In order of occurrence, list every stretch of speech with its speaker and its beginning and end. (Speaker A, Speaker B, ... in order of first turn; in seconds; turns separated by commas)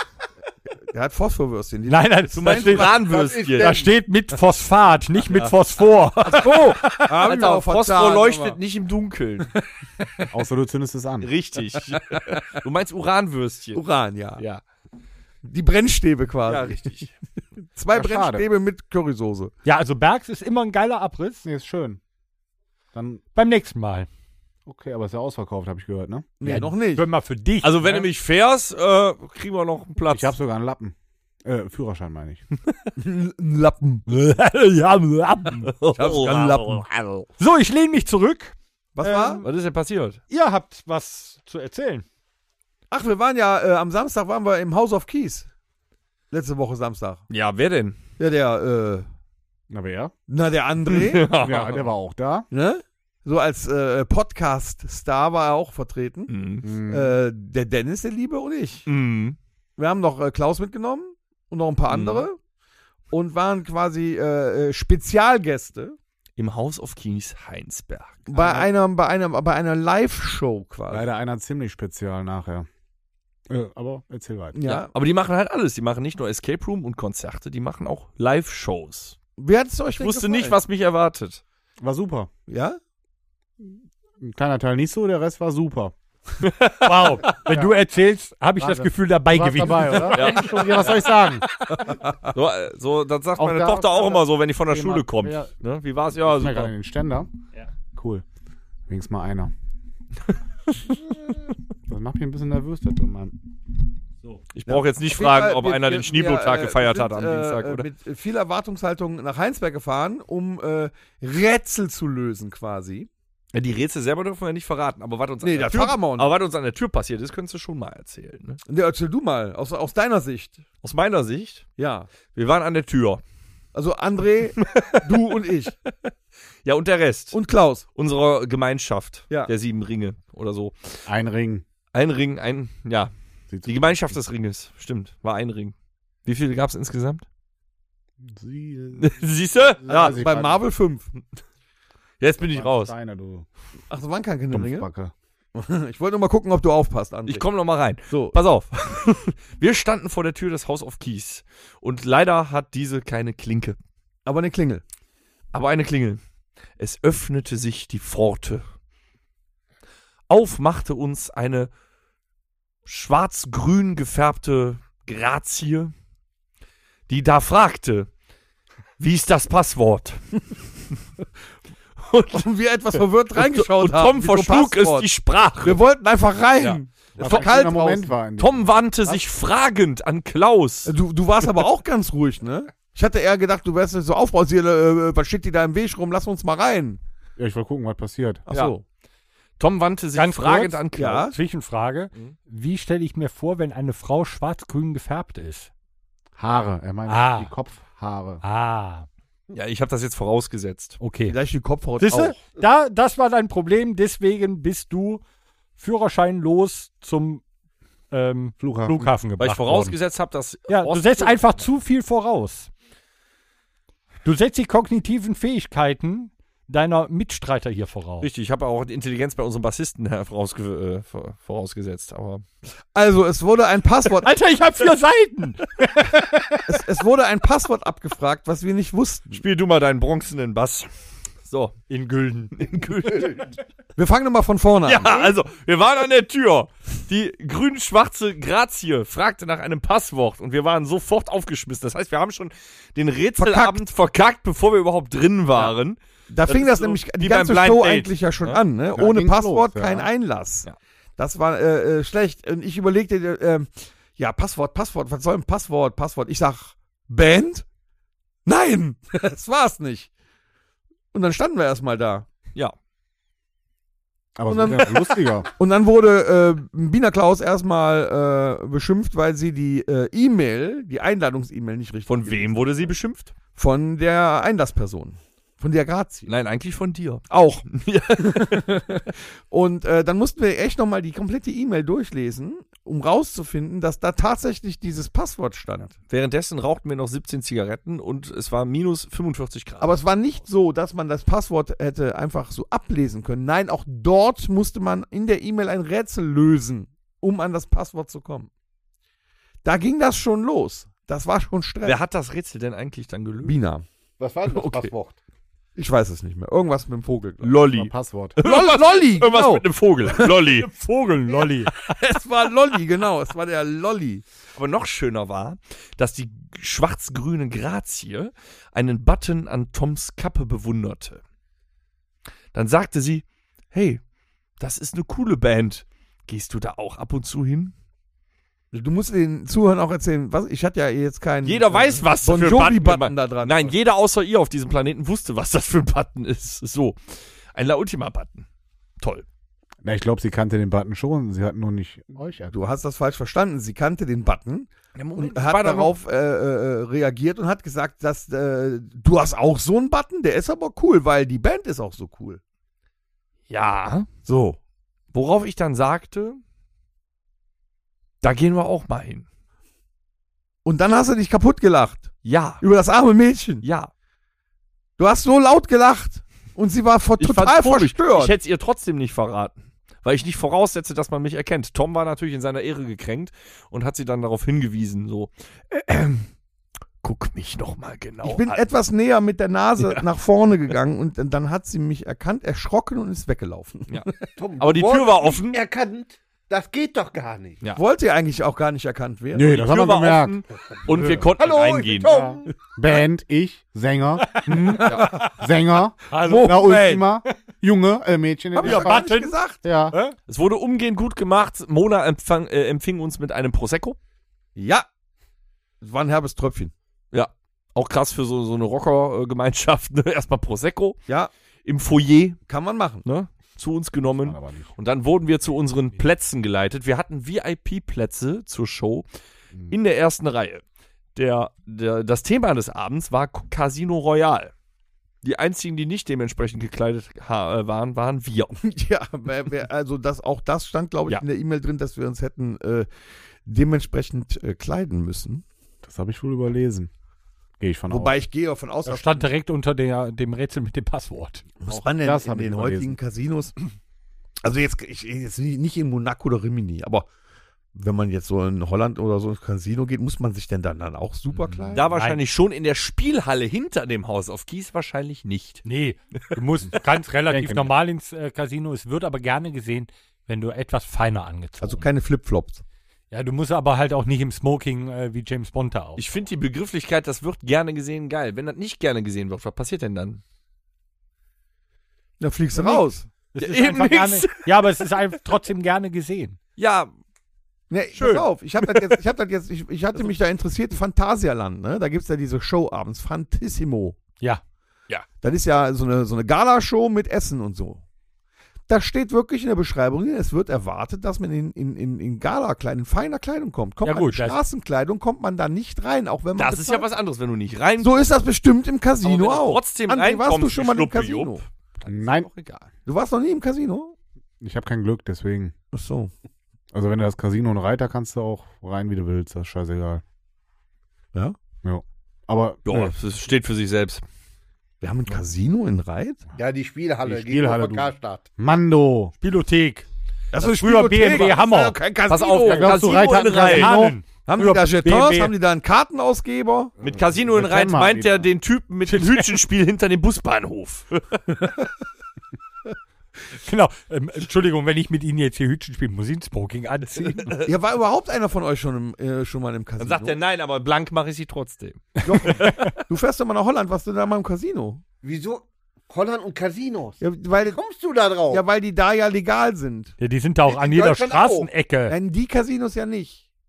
Speaker A: 0.8-3.4, Speaker B: 1.9-7.1, Speaker C: 2.4-3.8, Speaker D: 3.1-3.9, Speaker A: 6.2-8.6, Speaker C: 6.2-9.5, Speaker E: 10.3-11.3, Speaker C: 11.2-13.8, Speaker A: 13.7-14.4, Speaker A: 15.4-16.9, Speaker C: 16.5-17.1, Speaker A: 17.8-19.5, Speaker E: 17.9-18.5, Speaker B: 19.6-21.4, Speaker E: 21.4-22.0, Speaker E: 22.9-23.2, Speaker B: 23.4-24.1, Speaker E: 24.7-26.3, Speaker A: 26.4-27.1, Speaker B: 26.4-28.1, Speaker C: 27.6-30.4, Speaker E: 30.1-32.4, Speaker A: 33.0-34.0, Speaker B: 34.1-35.7, Speaker C: 35.6-36.9, Speaker A: 36.0-37.2, Speaker B: 37.4-39.5, Speaker A: 39.0-39.4, Speaker C: 39.4-40.2, Speaker B: 40.3-42.0, Speaker A: 42.9-45.5, Speaker A: 46.3-47.2, Speaker C: 47.3-48.0, Speaker A: 48.2-49.1, Speaker E: 49.7-50.1, Speaker A: 50.3-51.4, Speaker C: 50.9-51.9, Speaker E: 51.4-52.5, Speaker A: 52.5-56.3, Speaker C: 56.3-56.7, Speaker E: 56.6-57.2, Speaker A: 56.9-58.9, Speaker C: 58.9-59.4, Speaker A: 59.8-62.4, Speaker C: 61.9-62.2, Speaker A: 63.1-66.0, Speaker C: 66.4-68.3, Speaker A: 68.3-71.1, Speaker E: 68.3-68.7, Speaker E: 70.9-72.7, Speaker E: 73.5-74.6, Speaker A: 74.5-74.9, Speaker C: 74.6-79.2, Speaker A: 79.4-80.6, Speaker C: 79.9-81.4, Speaker E: 81.8-82.3, Speaker A: 82.5-82.8, Speaker E: 83.6-85.9, Speaker C: 86.4-87.4, Speaker B: 86.8-90.6, Speaker E: 87.3-87.7, Speaker E: 88.6-91.5, Speaker C: 90.0-96.7, Speaker A: 91.8-92.3, Speaker E: 93.4-95.5, Speaker E: 96.2-97.3, Speaker E: 98.0-98.2, Speaker E: 98.9-99.5, Speaker E: 101.9-103.4, Speaker C: 104.5-107.9, Speaker A: 104.7-113.1, Speaker C: 113.5-118.6, Speaker A: 115.4-116.3, Speaker A: 118.7-120.6, Speaker C: 120.8-121.7, Speaker A: 121.8-122.1, Speaker C: 122.3-123.2, Speaker A: 123.8-125.8, Speaker C: 124.6-125.3, Speaker C: 126.6-127.4, Speaker A: 127.3-127.8, Speaker C: 128.0-131.0, Speaker E: 131.1-131.7, Speaker C: 131.9-133.1, Speaker E: 133.5-133.9, Speaker C: 133.6-135.7, Speaker C: 136.2-137.2, Speaker E: 138.2-139.2, Speaker C: 139.0-140.2, Speaker E: 139.8-140.6, Speaker A: 139.9-141.1, Speaker C: 142.2-142.9, Speaker E: 142.4-143.5, Speaker A: 143.9-144.9, Speaker E: 144.5-145.1, Speaker A: 145.5-147.4, Speaker C: 147.3-153.8, Speaker A: 148.1-148.4, Speaker A: 154.2-154.8, Speaker C: 155.5-156.2, Speaker C: 156.8-158.6, Speaker C: 160.3-161.7, Speaker C: 162.9-165.9, Speaker C: 167.1-168.1, Speaker C: 169.0-170.4, Speaker C: 172.0-172.4, Speaker A: 172.3-175.1, Speaker C: 173.3-175.8, Speaker A: 175.6-178.1, Speaker C: 176.6-180.9, Speaker E: 177.2-179.2, Speaker A: 180.8-187.0, Speaker E: 187.4-188.4, Speaker A: 188.5-188.8, Speaker C: 188.5-188.8, Speaker C: 189.6-191.3, Speaker B: 190.2-195.7, Speaker A: 190.9-191.3, Speaker E: 196.4-198.4, Speaker B: 197.1-197.5, Speaker B: 198.4-199.1, Speaker C: 199.5-201.0, Speaker B: 201.0-201.4, Speaker A: 201.3-202.4, Speaker B: 202.0-205.2, Speaker B: 205.8-207.4, Speaker B: 208.1-210.0, Speaker E: 208.6-209.1, Speaker C: 209.4-211.5, Speaker B: 210.7-212.7, Speaker B: 214.2-218.3, Speaker C: 218.2-222.4, Speaker A: 222.9-224.3, Speaker B: 224.2-226.8, Speaker A: 226.7-229.4, Speaker C: 229.3-230.9, Speaker C: 231.4-231.8, Speaker B: 231.9-232.7, Speaker C: 232.6-233.6, Speaker A: 234.0-235.3, Speaker C: 234.8-248.6, Speaker A: 243.4-243.8, Speaker A: 246.3-250.7, Speaker E: 248.9-250.1, Speaker A: 251.2-257.7, Speaker A: 258.4-260.1, Speaker A: 261.1-262.3, Speaker E: 264.4-265.5, Speaker A: 264.5-272.7, Speaker C: 272.1-273.3, Speaker A: 273.6-276.3, Speaker C: 276.3-279.0, Speaker A: 277.3-277.7, Speaker A: 278.2-285.9, Speaker C: 286.1-290.0, Speaker A: 289.8-298.5, Speaker A: 299.6-302.0, Speaker C: 301.8-303.6, Speaker A: 303.4-303.9, Speaker D: 304.2-305.2, Speaker C: 304.5-304.9, Speaker A: 305.8-307.6, Speaker C: 307.4-310.7, Speaker E: 307.7-308.4, Speaker A: 308.4-309.7, Speaker B: 310.5-311.7, Speaker A: 311.8-314.2, Speaker C: 314.6-321.2, Speaker C: 322.5-324.0, Speaker C: 324.6-327.7, Speaker A: 328.7-333.7, Speaker C: 331.4-337.0, Speaker C: 337.6-338.5, Speaker C: 339.0-339.2, Speaker E: 339.8-342.6, Speaker A: 342.5-352.4, Speaker C: 344.9-345.9, Speaker C: 353.5-354.1, Speaker A: 354.3-354.6, Speaker C: 355.1-356.4, Speaker C: 358.2-359.2, Speaker A: 360.6-363.6, Speaker C: 362.2-362.6, Speaker C: 363.6-363.9, Speaker A: 365.0-368.3, Speaker C: 367.2-376.3, Speaker C: 377.0-378.6, Speaker A: 378.2-384.2, Speaker C: 383.9-385.6, Speaker D: 384.4-387.6, Speaker A: 387.8-389.6, Speaker E: 389.3-390.4, Speaker C: 389.4-392.3, Speaker E: 391.0-391.2, Speaker D: 391.3-392.5, Speaker E: 392.1-399.1, Speaker B: 394.3-395.3, Speaker A: 394.9-395.3, Speaker B: 396.1-396.7, Speaker A: 396.2-397.1, Speaker A: 398.6-399.6, Speaker B: 398.6-399.4, Speaker E: 399.6-400.0, Speaker B: 399.9-400.2, Speaker C: 400.3-404.0, Speaker A: 404.6-404.9, Speaker A: 405.8-406.7, Speaker C: 407.1-411.1, Speaker C: 411.6-412.4, Speaker A: 412.5-413.1, Speaker C: 413.1-419.1, Speaker E: 414.1-414.7, Speaker C: 419.7-420.6, Speaker C: 421.2-424.5, Speaker C: 425.2-428.6, Speaker A: 428.6-432.9, Speaker A: 433.4-435.4, Speaker E: 435.8-436.9, Speaker E: 437.6-438.2, Speaker A: 437.9-439.3, Speaker B: 438.9-441.6, Speaker A: 441.6-443.6, Speaker E: 441.7-443.0, Speaker A: 444.4-447.1, Speaker A: 447.7-451.8, Speaker C: 451.7-455.6, Speaker B: 451.9-452.2, Speaker B: 455.6-461.9, Speaker E: 457.3-457.7, Speaker A: 461.6-462.6, Speaker B: 463.1-466.0, Speaker C: 466.0-470.2, Speaker A: 472.2-473.1, Speaker B: 472.6-476.4, Speaker C: 473.4-474.5, Speaker C: 476.6-476.9, Speaker A: 477.7-484.0, Speaker C: 478.0-478.9, Speaker A: 485.2-487.8, Speaker A: 488.7-496.9, Speaker B: 493.8-494.4, Speaker C: 496.4-498.2, Speaker A: 497.8-501.4, Speaker C: 499.0-502.7, Speaker E: 501.9-502.3, Speaker A: 502.9-503.9, Speaker E: 504.4-505.5, Speaker A: 505.7-506.1, Speaker E: 506.7-510.0, Speaker E: 511.6-512.9, Speaker C: 512.7-514.0, Speaker A: 514.8-516.2, Speaker D: 516.4-518.3, Speaker E: 517.0-519.1, Speaker B: 519.2-521.8, Speaker A: 520.3-522.8, Speaker C: 522.1-523.8, Speaker E: 522.4-524.0, Speaker B: 523.5-525.3, Speaker A: 524.3-526.8, Speaker C: 526.8-531.6, Speaker E: 527.2-528.3, Speaker B: 528.9-529.4, Speaker B: 533.4-537.3, Speaker C: 537.2-537.5, Speaker A: 537.4-540.2, Speaker C: 539.8-542.5, Speaker A: 542.0-544.8, Speaker B: 542.1-542.7, Speaker D: 545.0-548.4, Speaker A: 547.0-547.6, Speaker A: 548.3-550.0, Speaker B: 550.0-552.0, Speaker D: 550.5-551.5, Speaker A: 551.9-553.2